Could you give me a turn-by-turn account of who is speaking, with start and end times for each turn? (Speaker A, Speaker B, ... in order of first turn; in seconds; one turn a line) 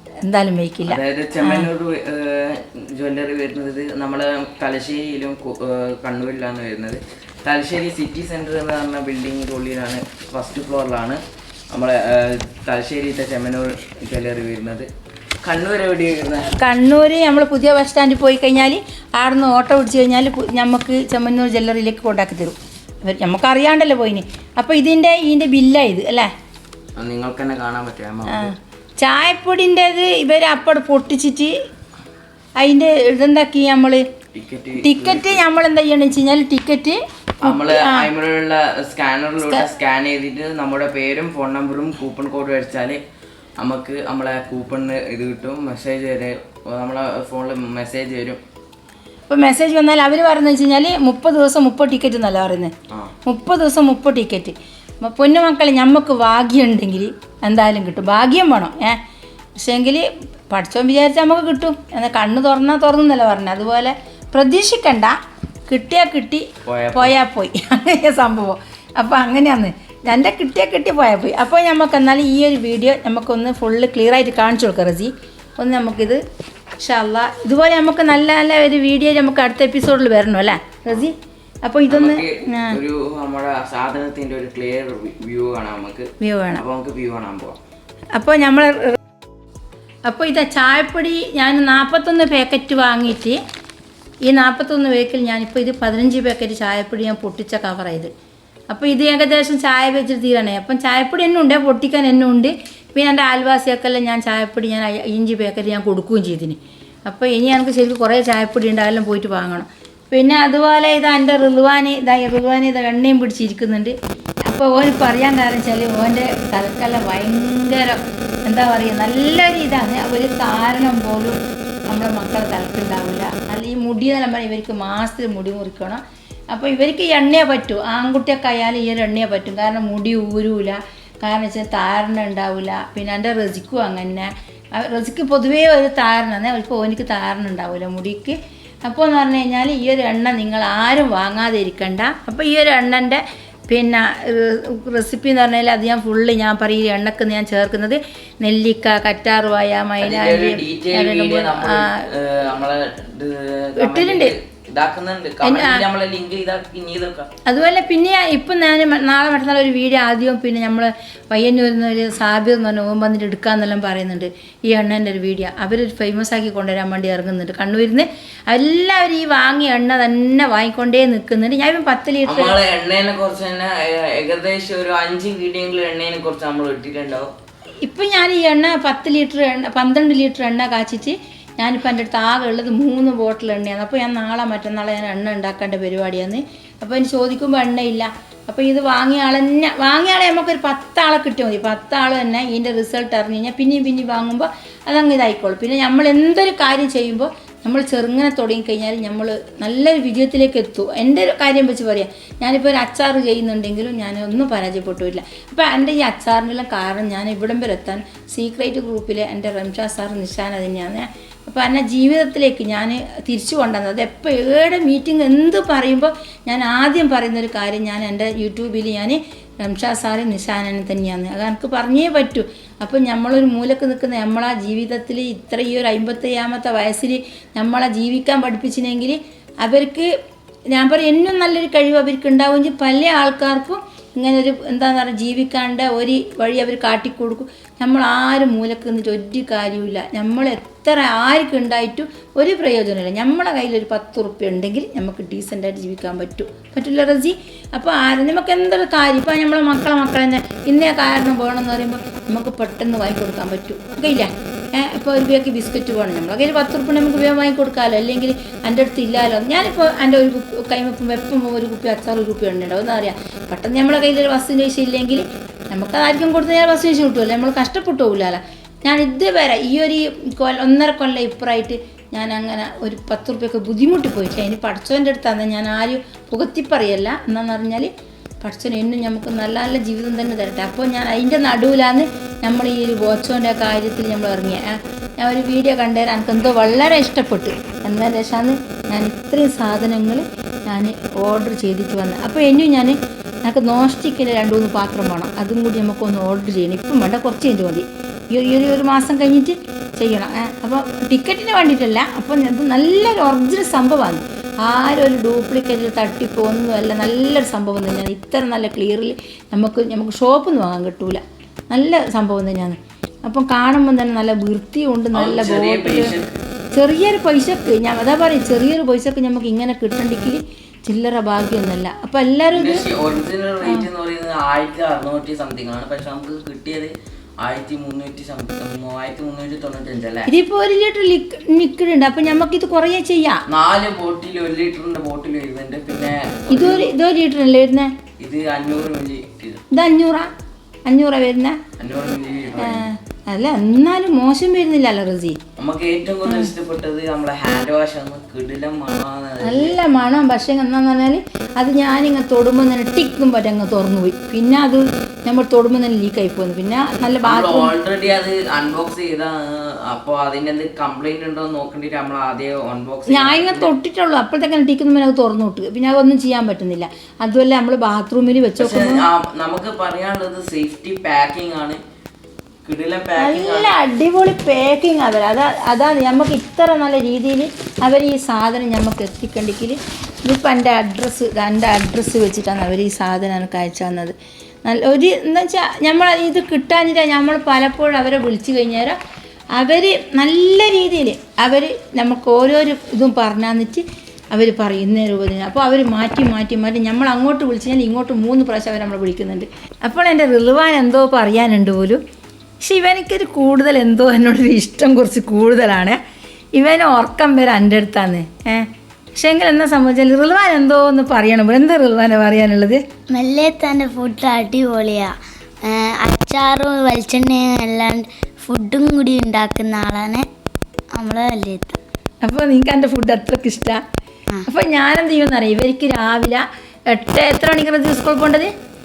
Speaker A: 0.2-1.7
Speaker B: 0.8-11.2
Speaker B: 11.7-14.9
Speaker B: 15.4-16.5
Speaker A: 16.5-26.3
Speaker B: 26.9-28.5
Speaker A: 28.3-31.5
Speaker A: 32.6-34.0
Speaker B: 34.3-35.4
Speaker A: 34.8-38.1
Speaker B: 37.4-43.0
Speaker B: 43.6-48.4
Speaker A: 49.3-52.7
Speaker A: 53.2-59.0
Speaker A: 59.6-65.2
Speaker A: 65.7-76.2
Speaker B: 66.6-67.1
Speaker A: 76.8-82.8
Speaker B: 81.9-87.6
Speaker A: 86.2-86.6
Speaker A: 88.2-89.0
Speaker A: 90.0-93.4
Speaker A: 94.2-98.1
Speaker A: 98.7-113.9
Speaker A: 114.5-152.0
Speaker B: 150.0-157.3
Speaker A: 153.8-154.3
Speaker A: 155.4-155.8
Speaker A: 157.4-172.6
Speaker B: 172.2-177.3
Speaker A: 177.8-230.1
Speaker A: 230.7-277.9
Speaker A: 278.4-316.1
Speaker B: 315.1-316.4
Speaker A: 316.7-322.9
Speaker B: 322.5-330.3
Speaker A: 330.3-333.4
Speaker B: 333.5-336.9
Speaker A: 336.5-337.9
Speaker B: 338.2-339.6
Speaker A: 339.7-340.3
Speaker A: 340.9-341.6
Speaker B: 341.8-342.9
Speaker A: 342.6-345.4
Speaker B: 345.6-349.8
Speaker A: 346.2-346.5
Speaker A: 349.4-357.7
Speaker B: 357.2-363.7
Speaker A: 363.1-369.0
Speaker B: 368.6-371.8
Speaker B: 372.6-373.8
Speaker A: 373.2-389.0
Speaker A: 389.5-402.0
Speaker A: 402.6-406.0
Speaker A: 406.5-412.8
Speaker C: 413.1-420.3
Speaker C: 420.9-421.8
Speaker A: 422.2-423.8
Speaker A: 424.4-428.5